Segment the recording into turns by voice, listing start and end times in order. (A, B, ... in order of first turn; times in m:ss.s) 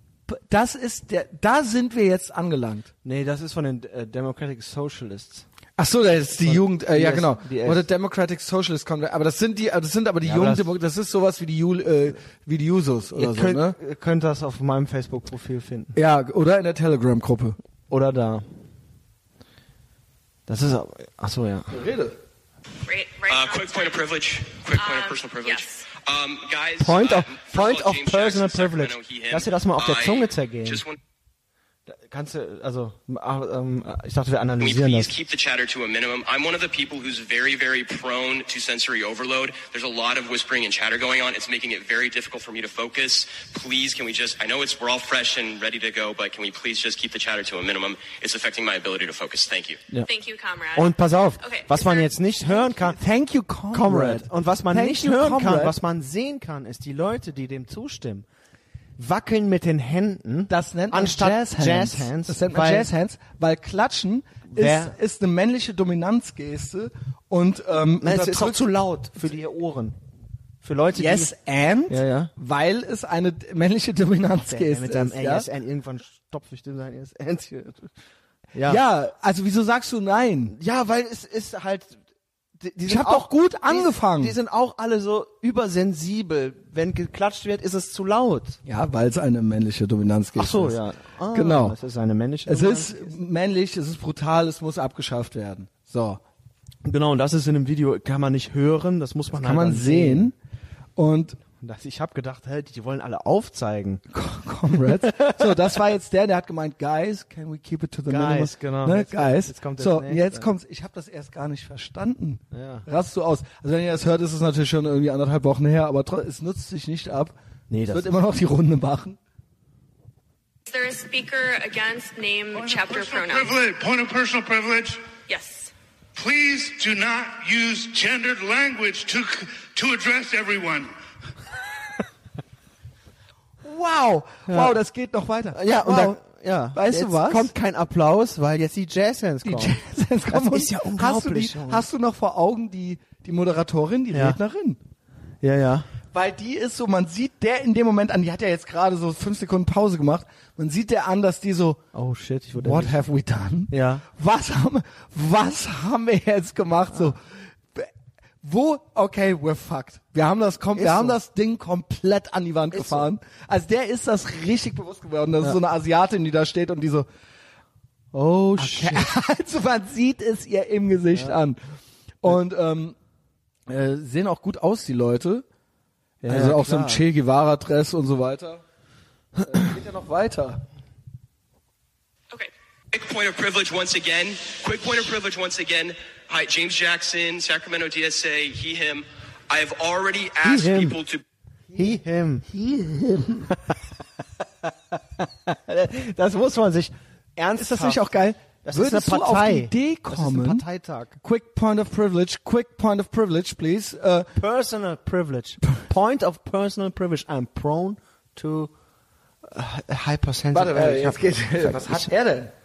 0:00.3-0:02.9 A
0:03.0-0:05.4 B
0:05.8-0:13.8 A
0:06.4-0:07.8 B
0:10.2-0:10.7 B
0:13.1-0:16.0 B
0:15.9-0:17.6 A
0:17.9-0:18.5 B
0:20.5-0:21.8 B
0:21.7-0:22.2 A
0:22.8-0:24.0 C
0:23.3-0:31.0 D
0:24.7-0:25.9 C
0:26.8-0:30.8 B
0:31.9-0:35.1 B
0:34.6-0:49.8 D
0:50.0-0:52.7 C
0:50.7-0:53.0 B
0:52.8-0:55.8 A
0:53.7-0:58.2 B
0:59.0-1:02.9 B
1:00.5-1:08.6 A
1:04.5-1:04.9 B
1:08.0-1:10.0 B
1:10.6-1:11.3 B
1:11.0-1:15.5 A
1:11.9-1:12.3 B
1:14.5-1:17.9 B
1:18.5-1:18.8 B
1:18.6-1:20.5 A
1:20.5-1:22.0 B
1:22.6-1:28.6 B
1:22.9-1:24.4 A
1:28.6-1:30.8 A
1:30.3-1:33.1 B
1:31.3-1:31.8 A
1:32.5-1:36.2 A
1:36.8-1:40.3 B
1:39.3-1:40.3 A
1:41.0-1:41.4 A
1:41.6-1:44.0 B
1:44.1-1:57.3 A
1:45.1-1:45.5 B
1:48.1-1:50.5 B
1:52.5-1:52.8 B
1:57.7-1:58.1 B
1:57.9-1:59.2 A
2:00.7-2:03.6 C
2:02.5-2:05.0 E
2:05.3-2:05.7 C
2:06.1-2:10.9 E
2:13.6-2:16.2 A
2:14.5-2:14.8 B
2:15.5-2:19.8 B
2:16.7-2:17.5 A
2:19.4-2:24.8 A
2:20.3-2:21.8 B
2:25.4-2:25.9 B
2:26.1-2:31.8 A
2:31.9-2:33.0 B
2:32.6-2:37.2 A
2:33.7-2:34.0 B
2:38.4-2:47.1 A
2:40.7-2:41.2 B
2:42.7-2:43.1 B
2:48.1-2:51.6 A
2:48.5-2:49.1 B
2:52.2-2:53.0 A
2:53.7-2:55.4 A
2:56.2-2:57.0 B
2:56.2-2:58.6 A
2:59.4-3:00.6 A
3:02.9-3:11.2 D
3:10.4-3:11.0 B
3:11.7-3:12.5 B
3:12.5-3:13.5 A
3:13.4-3:13.8 B
3:14.6-3:18.0 B
3:17.6-3:20.6 A
3:18.6-3:21.2 B
3:21.2-3:24.3 A
3:24.4-3:28.7 B
3:29.4-3:32.1 B
3:30.5-3:32.5 A